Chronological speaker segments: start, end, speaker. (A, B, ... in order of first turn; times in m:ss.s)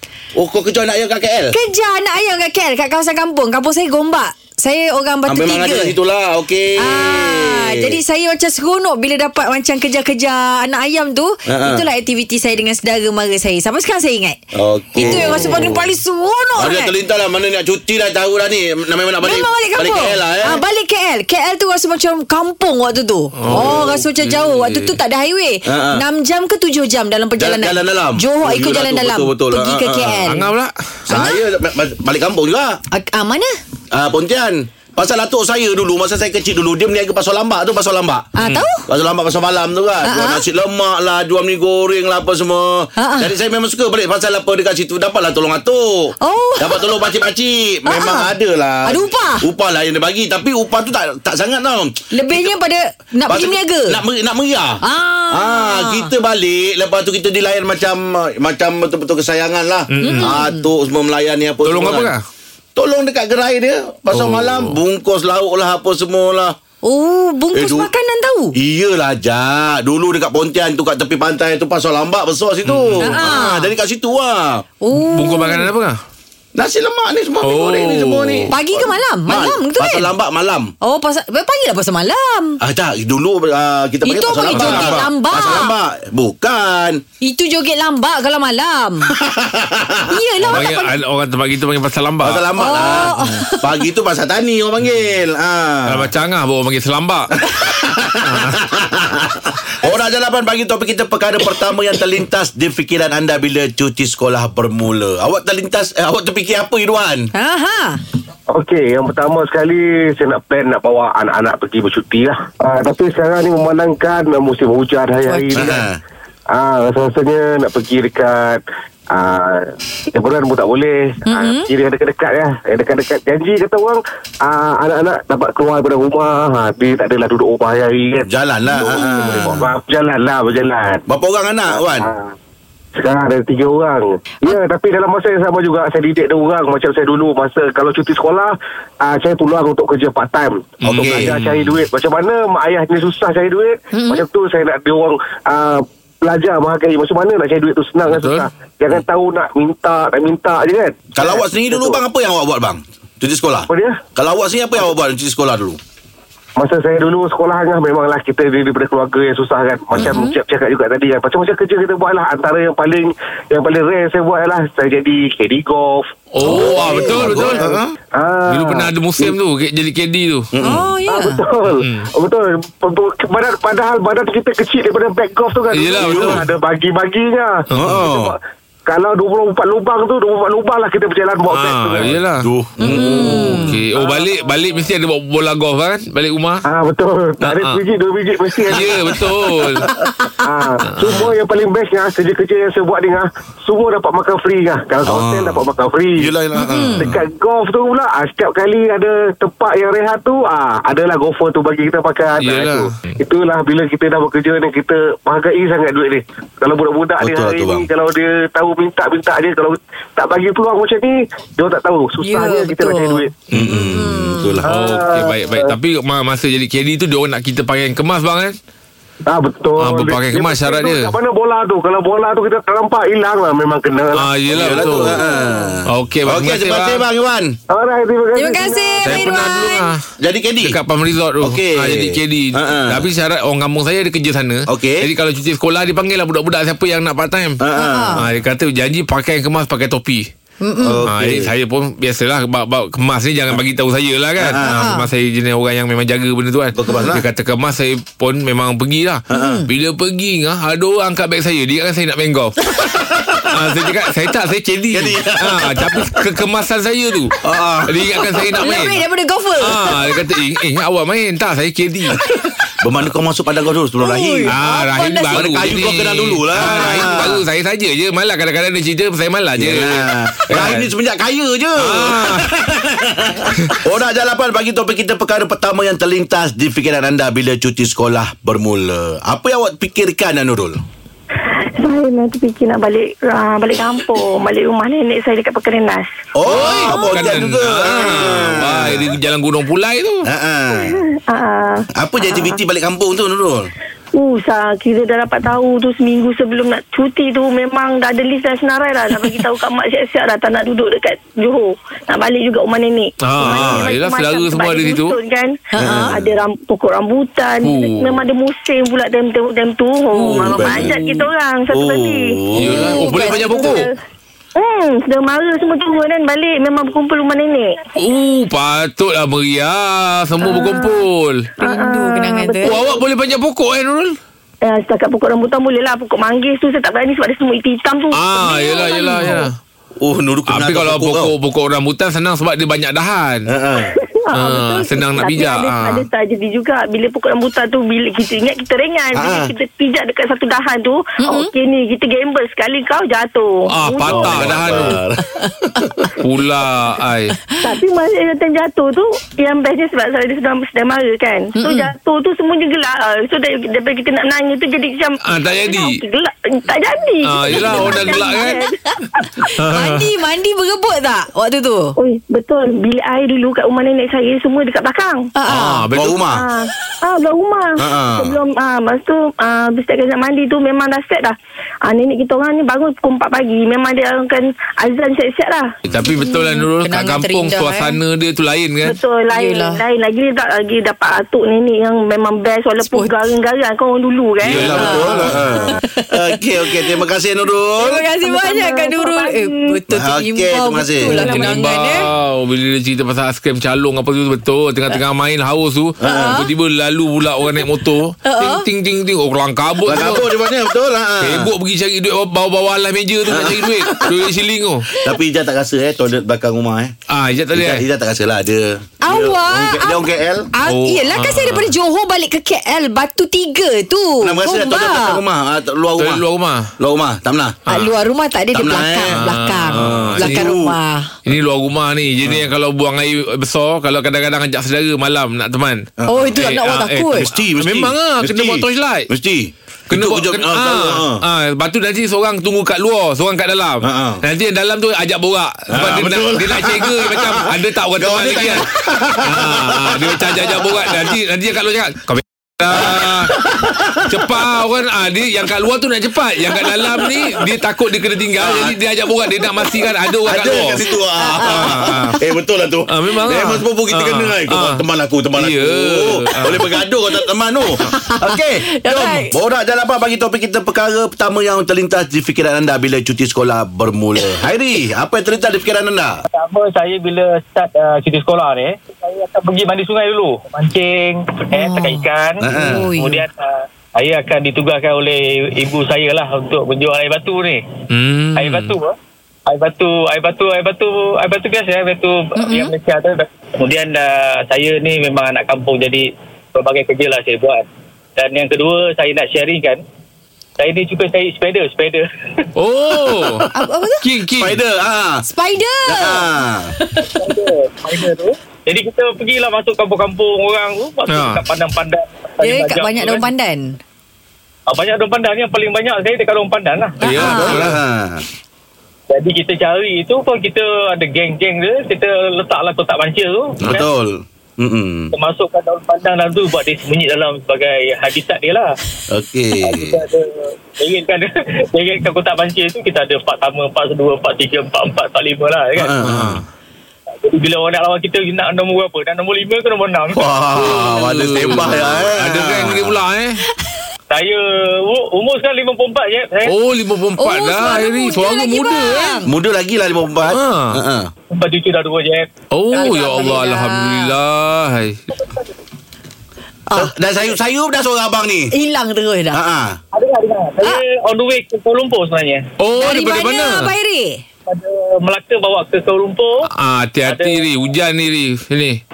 0:00.4-0:01.6 A
0:01.5-0:06.0 B
0:05.3-0:08.0 A
0:06.8-0:14.4 B
0:11.5-0:11.8 A
0:14.5-0:15.9 A
0:15.0-0:16.9 B
0:16.6-0:20.6 A
0:19.2-0:30.5 B
0:23.4-0:25.0 C
0:23.5-0:23.9 A
0:25.7-0:26.0 A
0:27.4-0:30.3 A
0:30.3-0:30.7 C
0:31.1-0:32.8 A
0:31.1-0:31.4 B
0:32.9-0:33.6 B
0:33.9-0:38.3 A
0:38.4-0:38.9 B
0:38.9-0:52.6 A
0:40.0-0:40.4 B
0:43.0-0:43.3 B
0:46.2-0:47.0 B
0:47.9-0:48.3 B
0:48.9-0:49.5 B
0:52.1-0:54.0 B
0:53.3-1:02.1 A
0:54.8-0:56.1 B
0:59.9-1:00.4 C
1:00.0-1:00.7 B
1:01.6-1:02.2 C
1:02.8-1:06.6 A
1:04.1-1:04.8 C
1:06.8-1:08.6 B
1:07.5-1:07.9 A
1:08.6-1:14.6 A
1:12.6-1:13.2 C
1:13.0-1:13.7 B
1:14.8-1:15.7 B
1:14.9-1:16.0 C
1:16.6-1:20.7 A
1:17.4-1:18.5 C
1:18.5-1:20.1 B
1:20.8-1:22.6 B
1:22.6-1:27.0 A
1:24.0-1:25.7 B
1:24.5-1:25.1 C
1:27.2-1:29.1 B
1:29.1-1:30.6 A
1:30.1-1:30.9 B
1:30.5-1:33.3 C
1:32.2-1:36.1 A
1:32.6-1:33.7 B
1:35.9-1:37.4 C
1:37.5-1:47.3 A
1:38.2-1:38.6 C
1:47.3-1:48.0 B
1:48.5-1:55.9 D
1:55.3-1:55.6 B
1:55.5-1:56.0 A
1:56.5-2:11.0 D
2:01.3-2:01.7 B
2:08.3-2:09.7 A
2:11.1-2:12.1 A
2:11.7-2:12.3 D
2:13.0-2:32.0 D
2:20.8-2:21.8 C
2:20.9-2:21.3 A
2:23.9-2:24.2 B
2:28.1-2:28.5 C
2:31.2-2:35.8 A
2:33.7-2:34.0 D
2:36.6-2:49.3 D
2:40.0-2:40.4 B
2:46.3-2:47.6 C
2:46.4-2:47.9 A
2:48.5-2:50.5 C
2:50.5-2:50.9 A
2:50.6-2:51.4 B
2:51.1-3:02.1 D
2:51.8-2:52.1 C
2:55.7-2:56.5 C
2:56.0-2:56.4 A
2:57.7-2:58.1 C
2:57.7-2:58.4 A
3:01.5-3:06.6 C
3:02.4-3:03.7 A
3:02.8-3:03.8 B
3:03.9-3:04.3 D
3:06.7-3:09.3 D
3:07.4-3:07.8 C
3:08.7-3:09.9 C
3:10.4-3:16.3 D
3:11.0-3:11.3 C
3:15.0-3:17.2 A
3:16.6-3:17.1 B
3:17.0-3:33.3 D
3:22.4-3:23.1 C
3:27.2-3:27.9 A
3:32.2-3:34.6 B
3:33.5-3:34.7 A
3:34.6-3:35.8 D
3:34.7-3:38.6 C
3:39.3-3:44.3 D
3:39.8-3:41.1 C
3:44.1-3:45.2 C
3:44.5-3:47.6 A
3:45.2-3:45.6 D
3:45.9-3:47.0 C
3:47.7-3:49.3 D
3:48.4-3:49.9 B
3:49.0-3:50.0 C
3:50.2-3:50.8 A
3:50.6-3:57.6 C
3:51.4-3:53.1 A
3:54.7-3:55.1 A
3:57.6-3:58.3 A
3:57.8-3:58.2 B
3:58.2-4:00.3 C
4:00.6-4:01.0 B
4:00.8-4:01.5 A
4:01.1-4:12.6 C
4:04.4-4:04.9 A
4:04.6-4:05.1 B
4:06.7-4:07.3 A
4:09.3-4:09.6 A
4:09.3-4:09.7 B
4:12.7-4:13.9 A
4:13.5-4:19.0 C
4:14.9-4:16.3 A
4:17.4-4:18.6 A
4:18.5-4:20.1 B
4:19.6-4:22.2 C
4:22.8-4:24.6 A
4:24.0-4:25.5 B
4:24.5-4:30.9 C
4:25.3-4:27.4 A
4:26.6-4:27.2 B
4:29.6-4:40.8 A
4:31.8-4:32.5 C
4:41.4-4:46.3 E
4:46.4-4:49.2 A
4:46.5-4:50.3 C
4:50.2-4:51.0 A
4:50.8-4:52.5 E
4:52.0-4:53.7 A
4:54.2-5:13.9 E
5:03.2-5:05.2 C
5:03.5-5:03.9 A
5:05.7-5:06.2 B
5:05.8-5:06.4 A
5:07.6-5:08.2 C
5:10.2-5:11.1 A
5:10.2-5:11.0 C
5:11.7-5:13.8 A
5:12.6-5:13.9 C
5:14.6-5:17.8 E
5:18.0-5:21.5 C
5:20.4-5:21.0 E
5:21.6-5:22.8 B
5:21.6-5:23.0 E
5:22.6-5:24.2 C
5:24.6-5:29.5 E
5:28.1-5:29.5 C
5:29.0-5:29.4 B
5:30.0-5:31.3 A
5:30.5-5:33.5 C
5:33.5-5:34.0 A
5:33.9-5:45.0 E
5:34.3-5:36.1 C
5:39.2-5:39.5 A
5:41.2-5:41.5 B
5:43.7-5:45.0 C
5:44.0-5:46.1 A
5:46.2-5:47.4 C
5:47.6-5:59.3 E
5:51.6-5:51.9 B
5:55.2-5:56.0 C
5:57.2-5:58.6 C
5:58.9-6:02.0 B
5:59.6-6:00.0 C
6:02.0-6:05.2 E
6:05.4-6:05.8 B
6:05.5-6:06.2 C
6:05.9-6:06.4 A
6:06.3-6:11.4 E
6:07.8-6:08.4 A
6:11.9-6:15.7 E
6:15.9-6:19.0 C
6:16.2-6:18.0 B
6:18.8-6:25.3 E
6:19.3-6:19.8 B
6:22.9-6:23.2 B
6:24.4-6:25.4 C
6:24.4-6:28.0 A
6:24.7-6:25.2 B
6:25.7-6:26.8 B
6:27.8-6:32.1 B
6:28.2-6:29.8 E
6:29.9-6:31.3 A
6:31.1-6:31.6 E
6:31.2-6:40.3 C
6:36.0-6:36.4 A
6:36.0-6:36.5 B
6:38.2-6:38.6 B
6:39.8-6:41.5 A
6:41.2-6:44.9 C
6:43.3-6:44.1 A
6:45.0-6:47.0 A
6:47.1-6:47.8 C
6:47.5-6:50.5 A
6:49.0-6:55.2 B
6:50.7-6:51.7 C
6:54.2-6:56.2 A
6:56.0-6:56.7 C
6:56.8-6:57.6 A
6:57.7-7:01.1 B
6:58.5-6:59.2 A
6:59.1-7:00.5 C
6:59.7-7:00.8 A
7:01.3-7:09.1 C
7:06.0-7:06.4 A
7:06.1-7:07.3 B
7:07.2-7:11.2 A
7:09.9-7:18.7 C
7:13.8-7:14.2 A
7:15.7-7:21.2 A
7:19.2-7:23.4 C
7:22.7-7:24.3 A
7:24.0-7:30.8 C
7:26.6-7:27.3 A
7:28.4-7:28.8 A
7:30.3-7:46.2 A
7:31.2-7:32.1 B
7:31.4-7:32.2 C
7:32.9-7:34.8 C
7:35.4-7:36.7 C
7:37.8-7:39.4 B
7:46.3-7:57.6 F
7:51.5-7:53.2 B
7:52.4-7:52.9 A
7:57.9-7:58.8 C
7:58.4-7:59.0 F
7:59.5-8:07.6 F
8:02.4-8:02.7 B
8:08.2-8:09.8 F
8:10.6-8:12.5 F
8:12.6-8:13.5 C
8:13.5-8:14.0 B
8:14.0-8:14.6 C
8:14.4-8:15.2 A
8:15.3-8:17.1 B
8:15.9-8:16.7 A
8:17.2-8:23.3 F
8:21.1-8:21.4 C
8:22.4-8:23.8 B
8:24.7-8:27.0 F
8:27.0-8:27.6 B
8:27.0-8:27.8 C
8:27.3-8:28.2 A
8:29.1-8:33.9 F
8:33.6-8:35.1 A
8:35.1-8:38.7 F
8:39.1-8:40.0 A
8:39.6-8:46.0 F
8:45.8-8:46.4 A
8:46.0-8:46.4 C
8:47.2-8:51.0 F
8:50.1-8:53.0 A
8:50.7-8:53.4 C
8:54.1-8:56.5 F
8:56.4-8:59.2 C
8:57.2-8:59.3 B
8:59.3-9:01.1 A
9:00.3-9:00.8 C
9:01.3-9:02.3 F
9:02.5-9:05.0 C
9:02.7-9:04.1 B
9:05.2-9:05.5 F
9:06.7-9:06.9 B
9:06.8-9:08.5 A
9:08.5-9:09.4 B
9:09.3-9:09.8 A
9:09.9-9:12.5 F
9:12.6-9:13.7 C
9:12.8-9:14.2 B
9:14.5-9:16.5 F
9:16.5-9:18.8 C
9:17.1-9:17.5 F